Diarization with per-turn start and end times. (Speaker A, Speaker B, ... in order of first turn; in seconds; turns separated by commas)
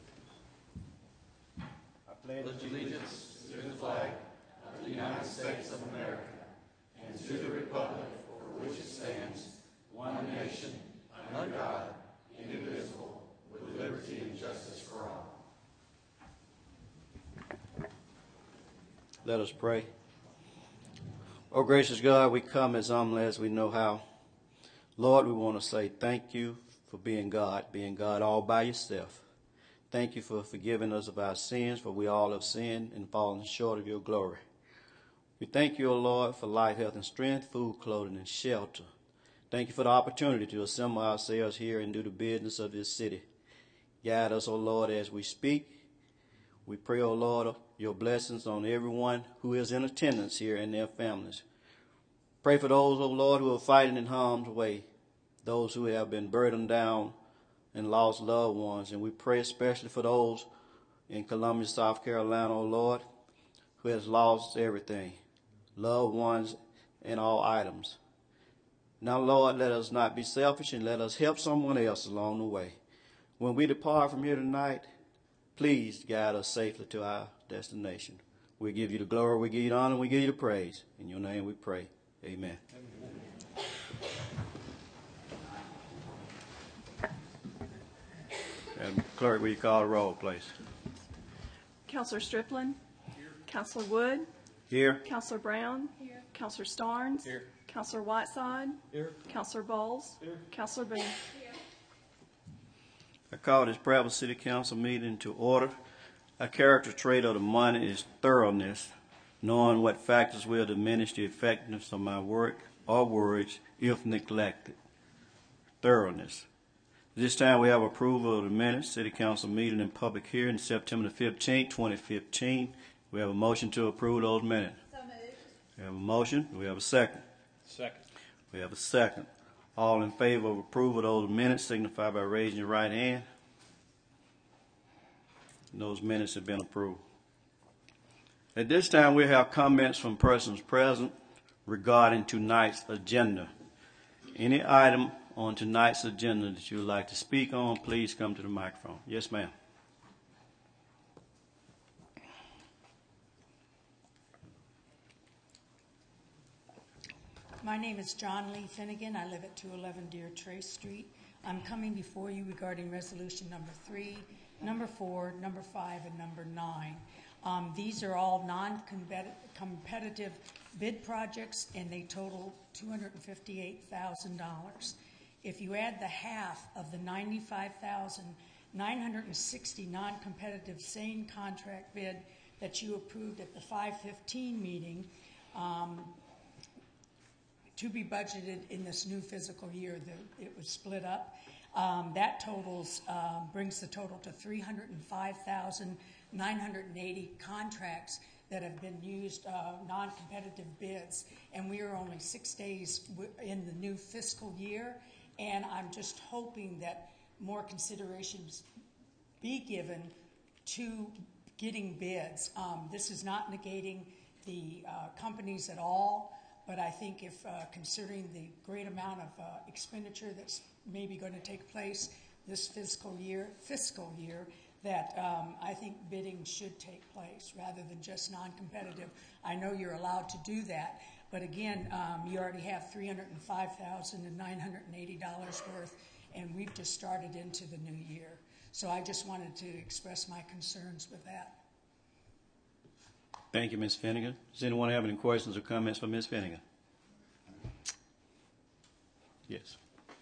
Speaker A: 2.1-2.9, Speaker B: 2.4-4.0, Speaker A: 19.2-19.9, Speaker A: 21.5-24.0, Speaker A: 25.0-29.2, Speaker A: 29.9-34.4, Speaker A: 35.4-38.9, Speaker A: 39.5-43.3, Speaker A: 44.0-45.8, Speaker A: 46.7-51.4, Speaker A: 52.4-54.9, Speaker A: 55.4-57.1, Speaker A: 57.7-60.5, Speaker A: 61.1-63.0, Speaker A: 63.8-65.2, Speaker A: 65.8-68.0, Speaker A: 69.0-72.8, Speaker A: 73.4-74.9, Speaker A: 75.6-82.6, Speaker A: 88.8-90.5, Speaker C: 91.8-92.8, Speaker C: 93.4-94.3, Speaker A: 94.7-95.0, Speaker C: 95.0-101.2, Speaker B: 97.2-97.5, Speaker B: 98.9-99.2, Speaker B: 100.2-100.5, Speaker A: 103.3-105.8, Speaker A: 106.4-114.8, Speaker A: 115.8-116.5, Speaker A: 117.2-124.8, Speaker A: 125.8-127.2, Speaker B: 127.6-128.0, Speaker A: 128.5-133.3, Speaker A: 135.7-137.0, Speaker A: 138.5-141.1, Speaker A: 141.7-143.5, Speaker A: 144.3-149.5, Speaker D: 157.6-186.2, Speaker D: 187.8-208.7, Speaker D: 209.4-241.6, Speaker A: 243.5-246.6, Speaker A: 249.5-249.8